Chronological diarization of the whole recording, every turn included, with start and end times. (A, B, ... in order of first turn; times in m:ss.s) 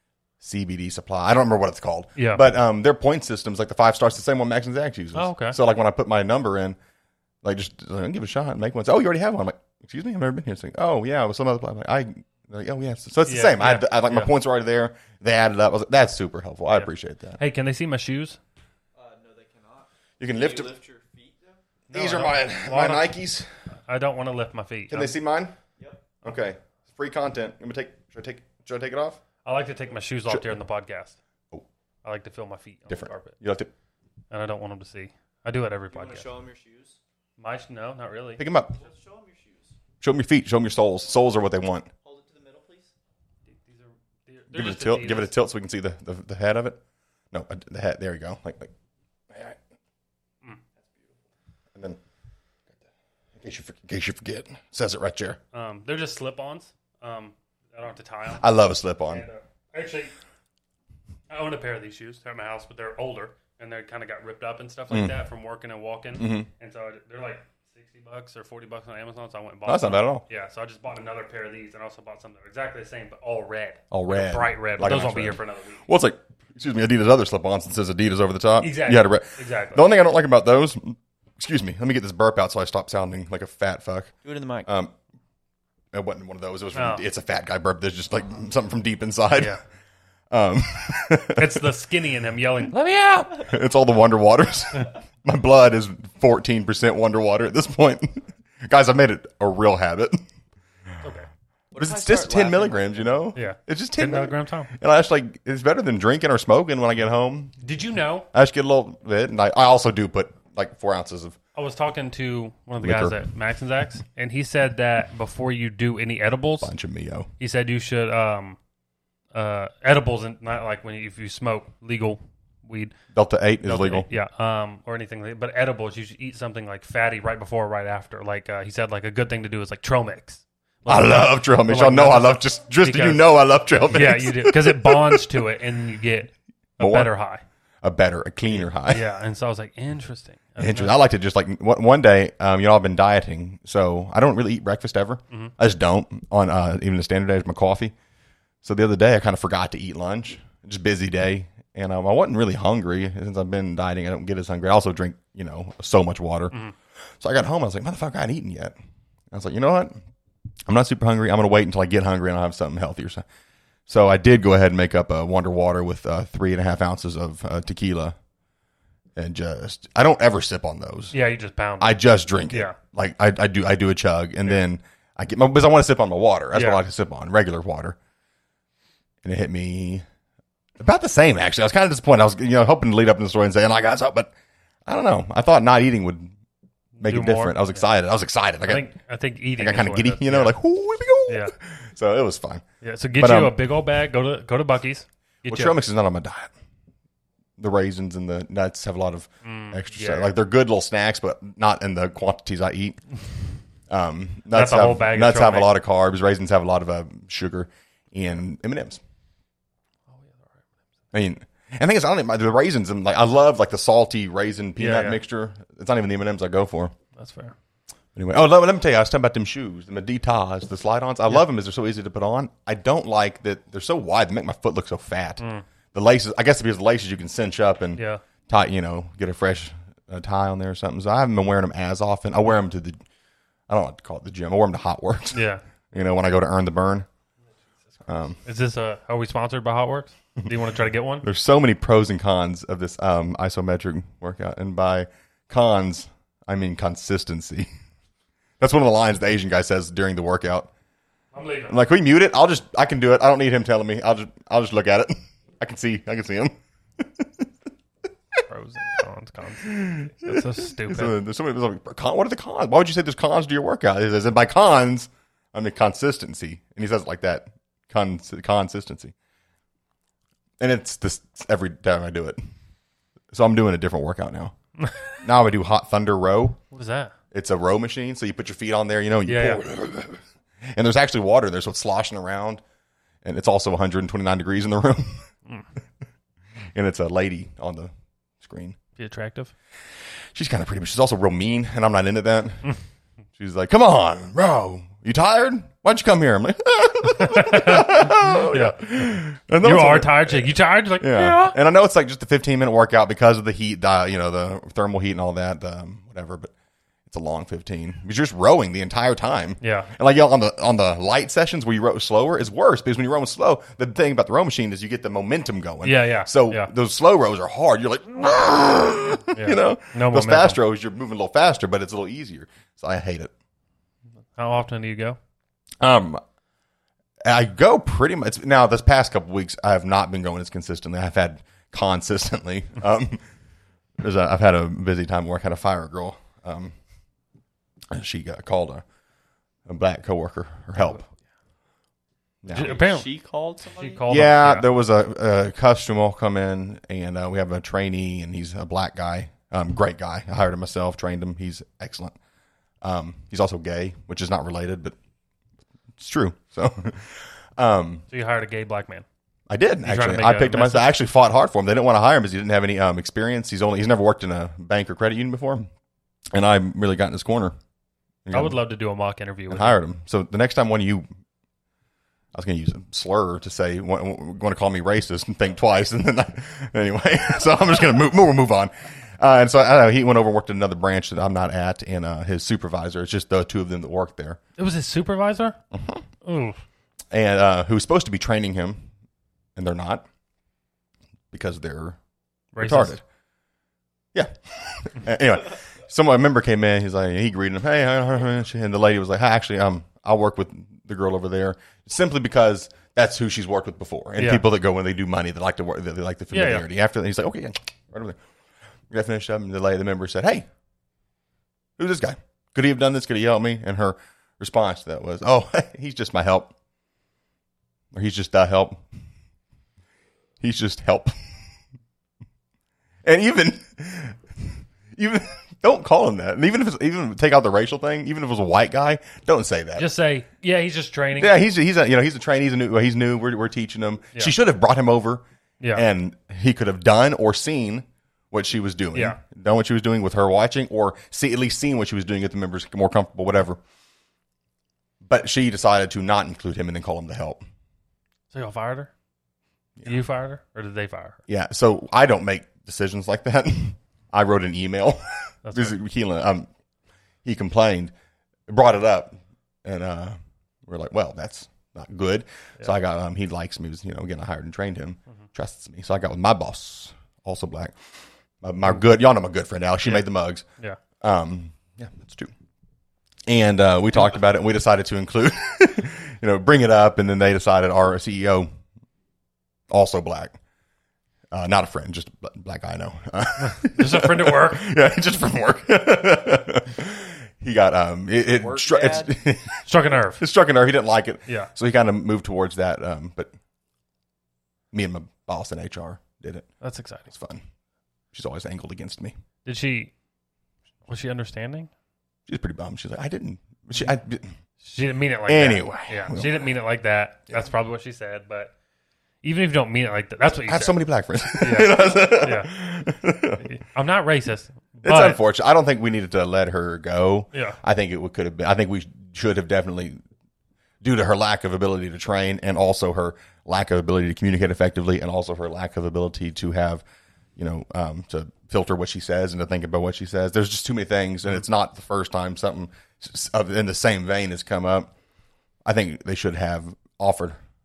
0:00.4-0:06.8 A
0:02.2-0:02.4 B
0:05.1-0:05.6 B
0:07.4-0:17.4 A
0:13.3-0:14.3 B
0:16.7-0:18.4 B
0:18.9-0:21.6 C
0:20.2-0:20.7 A
0:21.9-0:23.2 B
0:21.9-0:23.5 A
0:23.8-0:25.1 B
0:24.9-0:25.6 A
0:26.2-0:29.2 A
0:29.4-0:31.2 B
0:30.3-0:30.5 A
0:32.0-0:33.4 B
0:32.9-0:33.7 A
0:34.3-0:36.2 B
0:35.9-0:37.0 C
0:37.4-0:38.4 B
0:38.4-0:38.8 A
0:38.8-0:39.8 C
0:40.0-0:41.9 A
0:42.0-0:42.9 C
0:43.6-0:45.3 B
0:44.5-0:46.8 A
0:47.3-0:48.7 A
0:49.3-0:49.6 A
0:50.8-0:51.2 C
0:53.4-0:55.4 A
0:55.5-0:58.5 B
0:58.4-0:59.2 A
0:59.1-1:00.1 B
1:01.3-1:15.8 B
1:04.9-1:05.1 A
1:06.2-1:06.5 A
1:09.7-1:10.2 A
1:13.9-1:24.1 A
1:18.6-1:19.8 B
1:24.2-1:24.7 C
1:24.6-1:24.9 A
1:25.9-1:29.6 A
1:26.7-1:27.0 B
1:29.3-1:29.6 B
1:30.3-1:31.6 A
1:31.4-1:32.8 B
1:32.7-1:40.2 A
1:41.0-1:41.3 B
1:41.7-1:43.1 C
1:41.8-1:47.6 A
1:43.3-1:44.7 B
1:47.6-1:48.3 B
1:48.3-1:51.4 A
1:51.5-1:56.7 B
1:52.8-1:53.2 A
1:56.6-1:57.3 A
1:57.4-1:58.6 B
1:59.3-2:02.9 B
2:03.1-2:04.1 A
2:03.6-2:13.2 B
2:10.9-2:15.3 A
2:13.9-2:17.4 B
2:16.8-2:17.1 A
2:17.8-2:19.0 A
2:18.5-2:20.9 B
2:20.6-2:27.9 A
2:28.6-2:38.8 A
2:39.3-2:40.0 A
2:40.7-2:43.2 A
2:43.9-2:48.2 A
2:49.2-2:51.1 A
2:51.1-2:52.8 B
2:51.8-2:58.0 A
2:56.5-2:56.8 B
2:59.2-3:00.0 A
3:00.8-3:04.3 A
3:04.8-3:06.3 A
3:07.0-3:07.9 B
3:07.0-3:08.9 A
3:08.6-3:10.5 B
3:09.6-3:12.6 A
3:11.3-3:11.5 B
3:12.8-3:15.7 B
3:13.2-3:13.5 A
3:15.5-3:16.5 A
3:17.6-3:23.1 A
3:19.4-3:20.3 B
3:23.9-3:29.0 A
3:24.5-3:25.7 B
3:30.1-3:30.4 B
3:31.1-3:36.9 A
3:34.8-3:35.2 B
3:37.2-3:37.5 B
3:38.1-3:53.0 A
3:45.4-3:45.6 B
3:53.7-3:57.1 A
3:55.3-3:55.6 B
3:58.0-3:58.4 A
3:58.4-4:01.2 B
4:01.2-4:07.7 A
4:08.6-4:10.7 A
4:11.3-4:11.7 B
4:11.7-4:17.4 A
4:18.4-4:21.1 B
4:19.6-4:29.1 A
4:30.6-4:32.4 A
4:33.3-4:34.5 A
4:34.8-4:35.1 B
4:35.1-4:36.6 A
4:36.7-4:37.1 B
4:37.3-4:42.6 A
4:39.3-4:39.6 B
4:43.2-4:45.3 A
4:46.7-4:48.8 A
4:49.0-4:49.5 B
4:49.8-4:52.8 A
4:53.4-5:06.5 A
4:57.2-5:01.6 B
5:07.1-5:23.3 A
5:09.6-5:09.9 B
5:15.8-5:16.7 B
5:19.3-5:20.6 B
5:24.3-5:25.2 B
5:25.8-5:26.2 A
5:27.2-5:33.2 A
5:34.0-5:36.8 A
5:37.9-5:38.8 A
5:39.6-5:41.0 A
5:40.8-5:41.2 B
5:42.4-5:42.8 A
5:42.5-5:43.2 B
5:42.5-5:44.1 C
5:43.7-5:44.7 B
5:44.1-5:52.2 A
5:52.8-5:55.0 A
5:56.0-5:58.0 A
5:58.1-5:59.0 B
5:59.5-6:05.7 A
5:59.8-6:00.9 B
6:06.3-6:07.6 A
6:08.2-6:08.6 A
6:08.3-6:09.7 B
6:09.5-6:11.1 A
6:12.3-6:24.4 A
6:24.6-6:25.6 B
6:25.7-6:26.0 A
6:26.2-6:26.6 B
6:27.1-6:28.9 A
6:29.5-6:30.1 A
6:31.3-6:32.0 A
6:32.5-6:32.9 B
6:32.6-6:33.0 A
6:34.1-6:48.2 A
6:44.2-6:44.4 B
6:46.3-6:46.6 B
6:48.9-6:50.5 A
6:51.8-6:56.5 A
6:57.9-6:58.8 A
7:00.4-7:01.2 A
7:03.0-7:09.9 A
7:09.8-7:11.3 B
7:11.2-7:23.6 A
7:25.0-7:27.4 A
7:28.3-7:28.9 B
7:29.8-7:31.2 B
7:31.3-7:36.5 A
7:35.4-7:35.8 B
7:37.2-7:37.9 A
7:38.5-7:47.8 A
7:48.4-7:50.4 A
7:51.0-7:52.3 A
7:53.3-7:58.5 A
7:59.7-8:00.4 A
8:01.3-8:13.3 A
8:03.5-8:04.7 B
8:08.3-8:09.2 C
8:09.6-8:10.2 B
8:14.7-8:16.5 A
8:16.6-8:17.1 B
8:17.1-8:17.4 A
8:18.1-8:19.1 A
8:19.4-8:19.9 B
8:20.9-8:21.7 B
8:22.3-8:24.4 A
8:24.6-8:28.5 B
8:25.3-8:26.4 A
8:29.2-8:30.8 B
8:30.5-8:33.5 A
8:31.3-8:32.5 B
8:33.4-8:35.2 B
8:34.8-8:40.0 A
8:37.3-8:37.6 B
8:40.8-8:46.8 A
8:47.4-8:54.9 A
8:55.6-8:57.4 A